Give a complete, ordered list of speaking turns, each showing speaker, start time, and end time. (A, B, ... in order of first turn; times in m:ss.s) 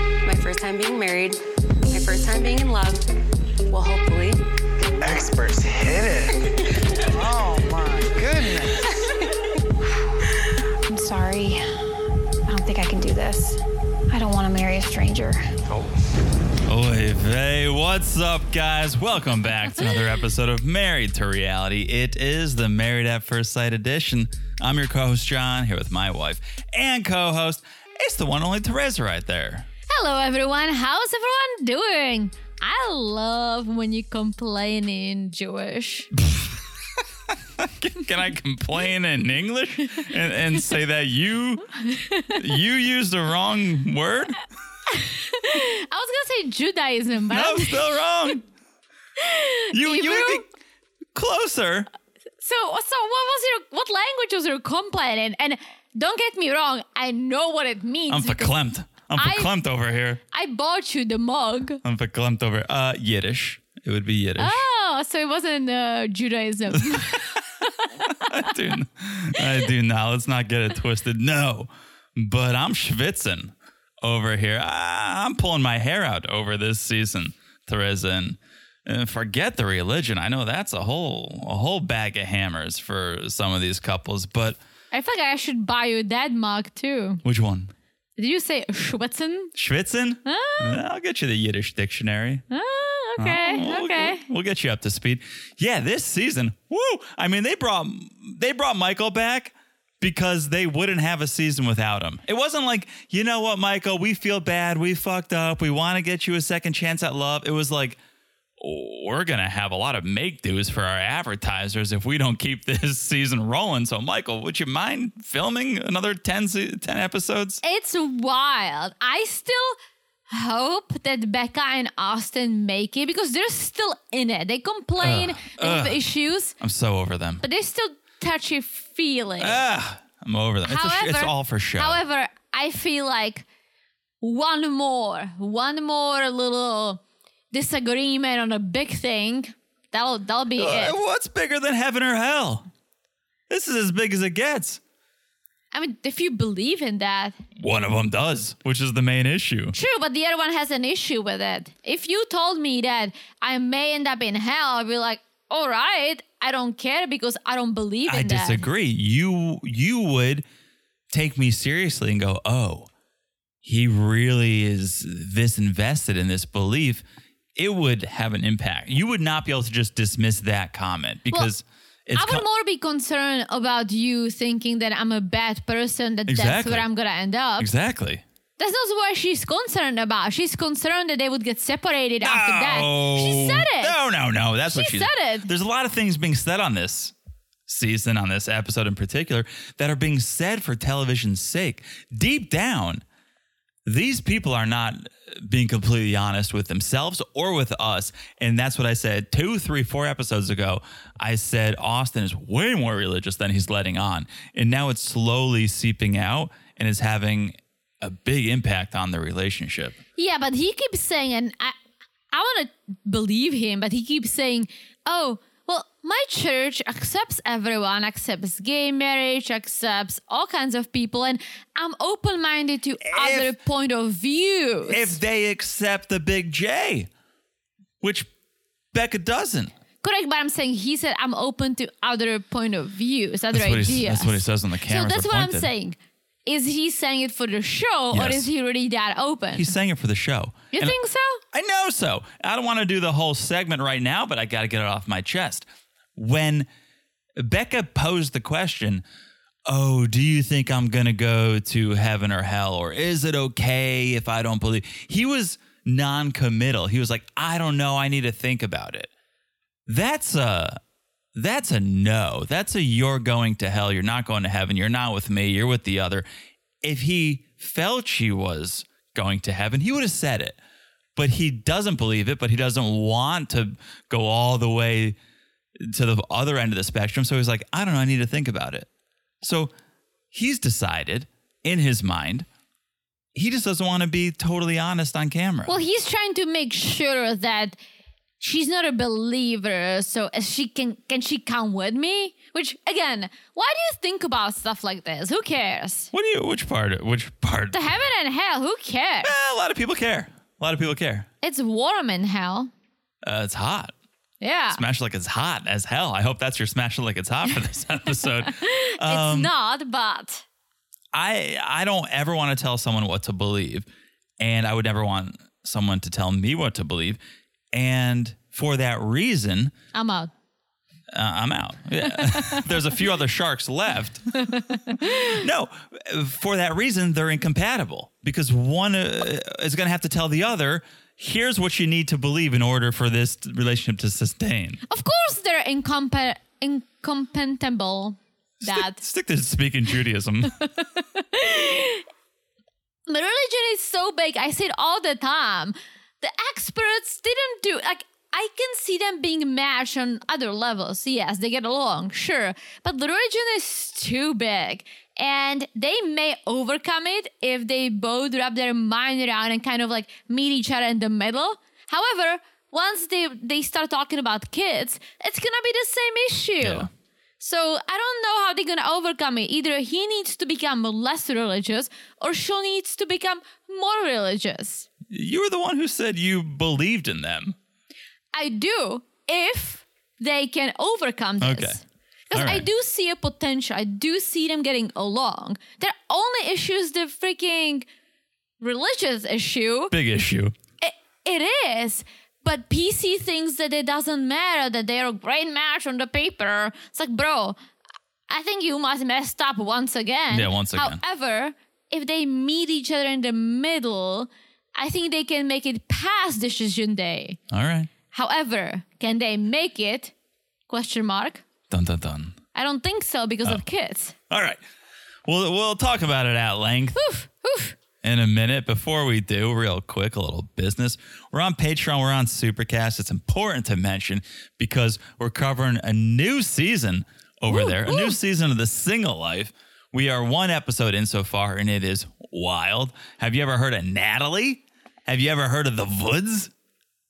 0:00.2-0:01.4 A
0:01.9-0:03.1 A
0:03.7-0:04.4 A
0:05.0-0:06.5 B
0:07.1-0:08.9 B
0:10.9-0:11.9 C
0:12.5-0:15.4 C
0:16.7-0:29.7 D
0:29.9-0:36.1 E
0:36.2-0:36.5 D
0:37.3-0:44.4 D
0:41.9-0:42.4 E
0:44.9-0:47.9 E
0:47.3-0:48.4 D
0:49.2-0:50.4 E
0:49.7-0:50.4 D
0:51.1-0:51.9 D
0:52.4-0:58.5 E
0:58.1-1:00.2 D
0:59.2-0:59.5 E
1:00.3-1:01.8 E
1:01.8-1:04.6 D
1:04.4-1:08.5 E
1:06.7-1:07.4 D
1:08.0-1:24.6 D
1:24.9-1:27.2 E
1:27.2-1:27.7 D
1:28.2-1:29.5 E
1:29.5-1:32.4 D
1:30.2-1:30.8 E
1:32.5-1:34.2 E
1:33.2-1:48.0 D
1:48.6-1:57.6 D
1:57.6-1:59.8 E
2:00.3-2:06.5 E
2:05.0-2:06.0 D
2:06.6-2:07.4 D
2:07.4-2:09.6 E
2:09.4-2:12.0 D
2:10.6-2:13.4 E
2:14.2-2:17.0 E
2:17.5-2:21.0 E
2:20.6-2:22.7 D
2:23.5-2:24.8 D
2:25.7-2:27.4 E
2:27.6-2:29.8 D
2:29.7-2:38.6 E
2:38.1-2:40.4 D
2:41.1-2:42.9 D
2:43.6-2:47.0 D
2:47.6-2:52.4 D
2:52.1-2:57.7 E
2:56.3-2:56.8 D
2:57.6-2:58.2 D
2:58.6-3:04.0 E
3:02.2-3:07.1 D
3:04.7-3:05.5 E
3:07.7-3:13.0 D
3:13.8-3:30.0 D
3:30.2-3:31.7 E
3:32.3-3:45.2 E
3:43.0-3:43.6 D
3:44.9-3:47.1 D
3:48.0-3:48.3 D
3:48.9-3:49.7 D
3:50.0-3:59.7 E
3:53.5-3:55.7 D
3:58.1-3:58.5 D
3:59.5-4:01.0 D
4:00.7-4:01.4 E
4:01.5-4:06.7 D
4:07.4-4:09.0 D
4:09.7-4:19.1 D
4:19.9-4:20.8 D
4:21.3-4:26.2 D
4:26.8-4:30.6 D
4:31.2-4:35.2 D
4:35.8-4:38.9 D
4:39.4-4:39.7 D
4:40.3-4:42.5 D
4:43.3-4:45.8 D
4:45.6-4:47.8 E
4:48.4-4:56.1 E
4:56.1-4:57.9 D
4:57.7-4:59.3 E
4:59.2-5:01.3 D
5:01.4-5:02.7 E
5:03.2-5:03.9 D
5:04.4-5:04.8 E
5:04.7-5:09.5 D
5:08.2-5:10.4 E
5:11.1-5:13.9 D
5:14.4-5:17.2 D
5:17.7-5:19.7 D
5:19.9-5:20.3 E
5:21.1-5:34.8 D
5:22.2-5:22.6 E
5:24.4-5:25.4 E
5:34.9-5:39.0 E
5:38.6-5:40.6 D
5:40.5-5:42.0 E
5:43.1-6:06.9 E
6:06.6-6:06.9 D
6:07.4-6:14.9 E
6:15.1-6:17.6 D
6:18.3-6:27.8 E
6:21.4-6:21.8 D
6:22.3-6:22.6 D
6:28.6-6:29.9 E
6:29.9-6:30.5 D
6:30.8-6:37.6 E
6:38.3-6:47.4 E
6:40.3-6:41.0 D
6:47.5-6:47.9 D
6:48.1-6:50.1 E
6:50.7-6:51.4 E
6:51.7-6:52.4 D
6:52.5-6:54.1 E
6:54.3-6:54.6 D
6:55.2-6:57.0 D
6:56.9-6:57.8 E
6:58.0-7:16.5 D
7:07.5-7:08.2 E